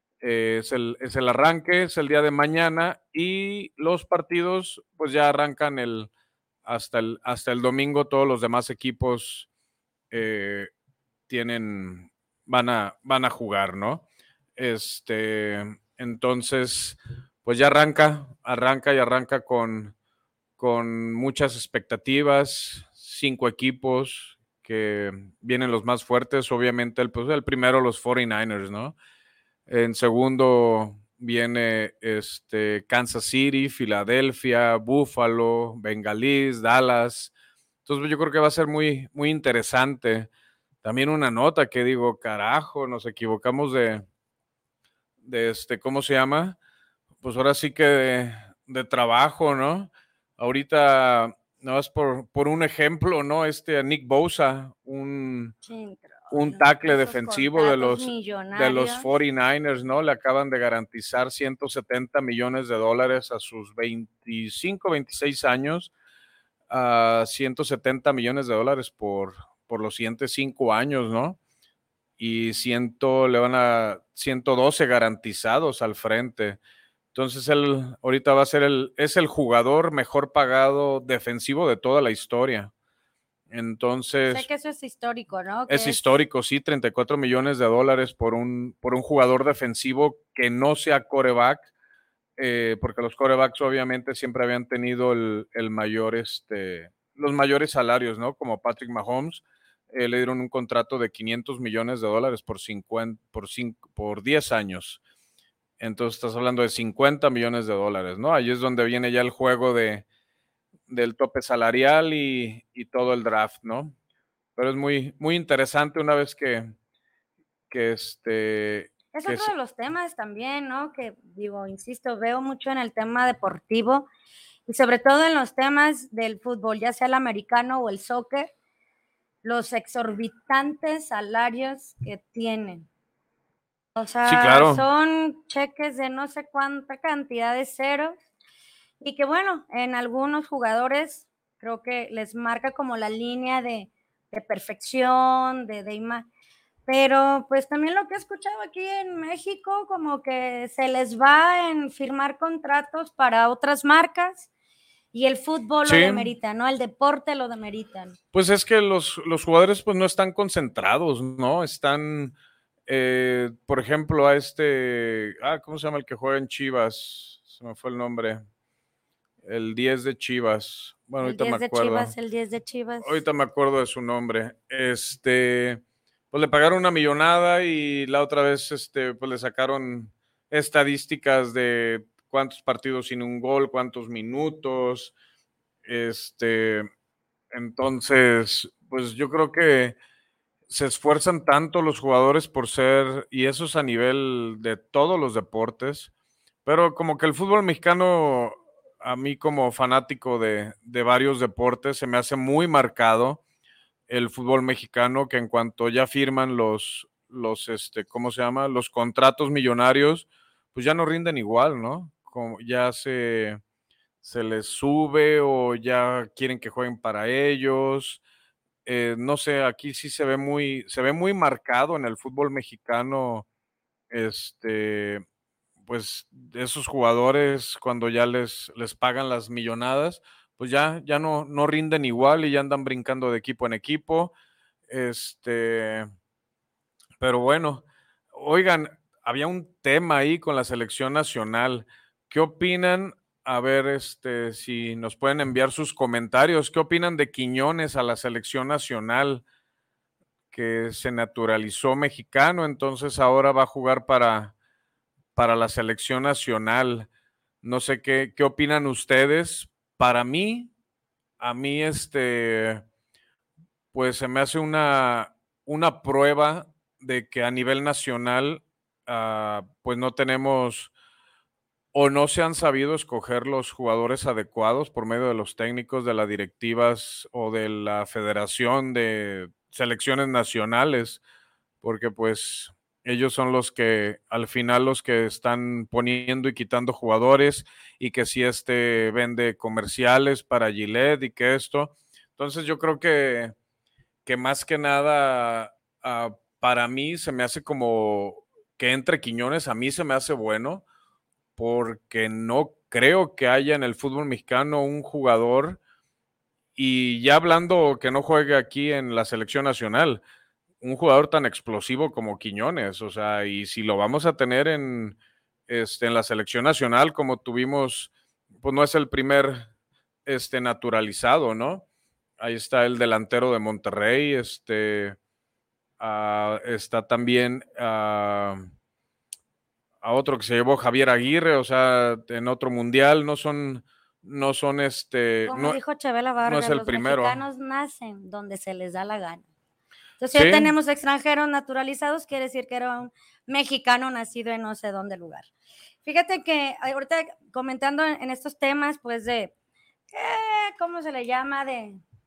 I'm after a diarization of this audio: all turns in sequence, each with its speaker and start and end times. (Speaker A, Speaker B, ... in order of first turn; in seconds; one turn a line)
Speaker A: 0.2-6.1
Speaker A: 6.6-9.5
Speaker A: 10.1-10.7
Speaker A: 11.3-14.0
Speaker A: 14.6-19.9
Speaker A: 20.6-28.9
Speaker A: 29.7-37.3
Speaker A: 37.8-40.3
Speaker A: 40.8-44.0
Speaker A: 45.2-46.6
Speaker A: 47.2-55.5
Speaker B: 55.6-59.1
Speaker A: 56.3-65.9
Speaker A: 66.7-71.4
Speaker A: 72.2-76.6
Speaker A: 77.1-82.7
Speaker A: 83.5-84.5
Speaker B: 84.3-86.0
Speaker A: 85.7-91.7
Speaker A: 92.4-105.0
Speaker A: 105.8-110.0
Speaker A: 110.9-113.9
Speaker A: 114.5-116.7
Speaker A: 117.7-119.5
Speaker B: 119.1-124.1
Speaker B: 124.7-128.5
Speaker B: 129.4-132.8
Speaker B: 133.9-138.2
Speaker A: 134.2-134.8
Speaker B: 139.0-146.3
Speaker B: 146.9-154.5
Speaker B: 155.1-158.2
Speaker A: 155.8-156.3
Speaker A: 158.3-162.3
Speaker A: 162.9-168.4
Speaker A: 169.4-172.1
Speaker B: 171.2-173.2
Speaker A: 173.0-185.1
Speaker A: 185.8-186.9
Speaker A: 187.5-189.9
Speaker A: 190.7-196.1
Speaker A: 196.6-203.4
Speaker A: 204.1-213.6
Speaker A: 214.2-218.2
Speaker A: 218.8-223.4
Speaker A: 224.1-225.2
Speaker A: 225.8-234.3
Speaker A: 234.9-236.1
Speaker A: 237.2-249.4
Speaker A: 250.5-254.5
Speaker A: 255.3-257.1
Speaker A: 257.6-260.7
Speaker A: 261.4-262.8
Speaker A: 263.9-270.9
Speaker A: 271.9-281.2
Speaker A: 281.8-293.5
Speaker A: 294.2-300.8
Speaker A: 301.6-305.8
Speaker A: 306.8-310.2
Speaker A: 310.8-315.2
Speaker A: 315.7-319.7
Speaker A: 320.2-321.8
Speaker A: 322.4-325.2
Speaker A: 326.0-328.6
Speaker A: 330.0-335.8
Speaker B: 335.4-339.4
Speaker A: 336.4-337.4
Speaker B: 340.2-345.4
Speaker A: 340.3-340.7
Speaker B: 346.0-349.5
Speaker B: 350.1-352.0